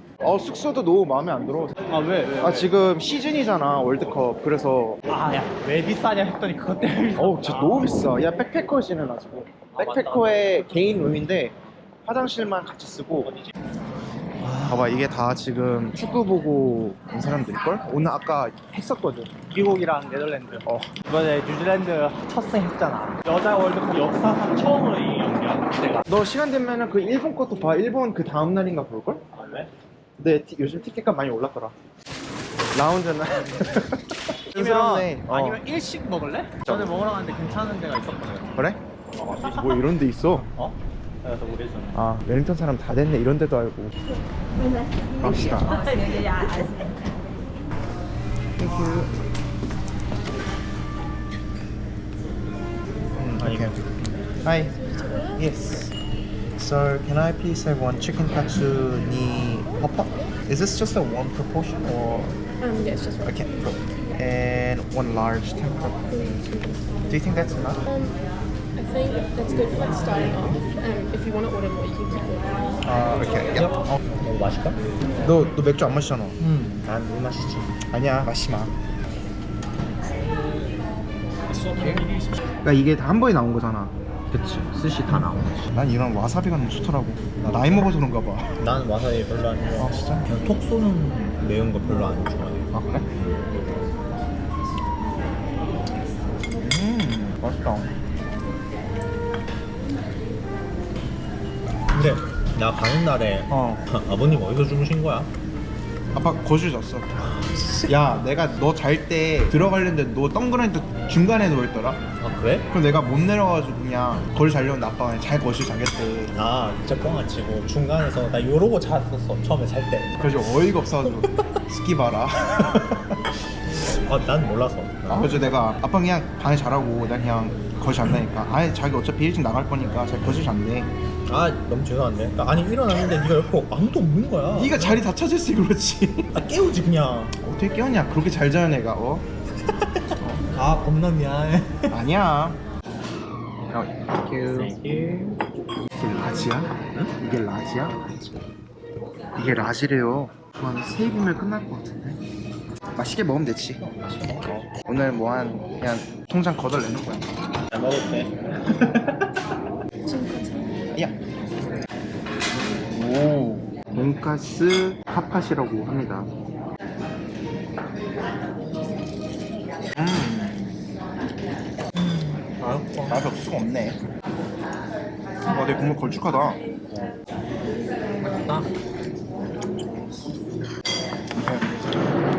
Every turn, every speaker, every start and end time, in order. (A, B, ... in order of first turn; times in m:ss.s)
0:00.2-0:01.8 A
0:01.9-0:02.7 B
0:02.4-0:05.0 A
0:05.1-0:08.1 B
0:07.2-0:13.4 A
0:09.9-0:10.4 B
0:14.4-0:15.0 B
0:14.6-0:19.3 A
0:19.1-0:26.0 B
0:20.7-0:20.9 A
0:25.1-0:25.6 C
0:26.0-0:29.3 A
0:29.4-0:29.7 B
0:30.2-0:31.8 A
0:32.7-0:35.6 A
0:34.6-0:38.5 B
0:35.4-0:36.0 C
0:36.6-0:37.1 A
0:38.6-0:40.5 A
0:39.2-0:42.0 B
0:41.9-0:44.0 A
0:45.2-0:45.8 A
0:48.6-0:49.2 A
0:53.2-0:53.8 A
0:53.4-0:54.2 B
0:54.4-0:56.0 A
0:56.6-1:02.4 A
1:03.2-1:06.4 A
1:07.1-1:07.8 A
1:09.6-1:10.6 B
1:11.2-1:12.2 C
1:12.8-1:13.8 A
1:13.4-1:14.8 B
1:15.2-1:16.4 A
1:16.4-1:17.8 B
1:17.9-1:18.8 A
1:21.5-1:22.4 B
1:21.8-1:22.1 A
1:22.6-1:24.0 A
1:24.3-1:25.7 B
1:25.7-1:28.6 A
1:27.4-1:27.8 B
1:28.6-1:32.7 B
1:29.8-1:30.3 A
1:31.8-1:33.1 A
1:36.6-1:37.9 A
1:41.9-1:45.3 B
1:43.5-1:43.8 A
1:46.1-1:47.2 A
1:47.2-1:47.9 B
1:47.9-1:52.0 A
1:52.2-1:52.7 B
1:52.7-1:56.4 A
1:56.3-2:01.3 B
2:00.2-2:02.6 A
2:02.5-2:05.4 B
2:05.1-2:10.9 A
2:11.3-2:15.1 B
2:14.5-2:16.3 A
2:16.3-2:17.4 B
2:17.4-2:19.3 A
2:20.5-2:22.0 B
2:21.9-2:22.6 A
2:23.7-2:24.8 A
2:23.8-2:25.4 B
2:26.0-2:28.3 A
2:26.2-2:27.1 B
2:29.4-2:32.2 A
2:33.0-2:37.3 A
2:33.8-2:34.7 B
2:37.7-2:39.1 B
2:40.9-2:41.2 A
2:42.6-2:46.3 A
2:49.9-2:50.8 A
2:51.9-2:53.3 B
2:53.1-2:54.0 A
2:55.4-2:56.6 A
2:56.9-2:57.1 B
2:58.2-2:58.7 B
3:01.4-3:01.9 A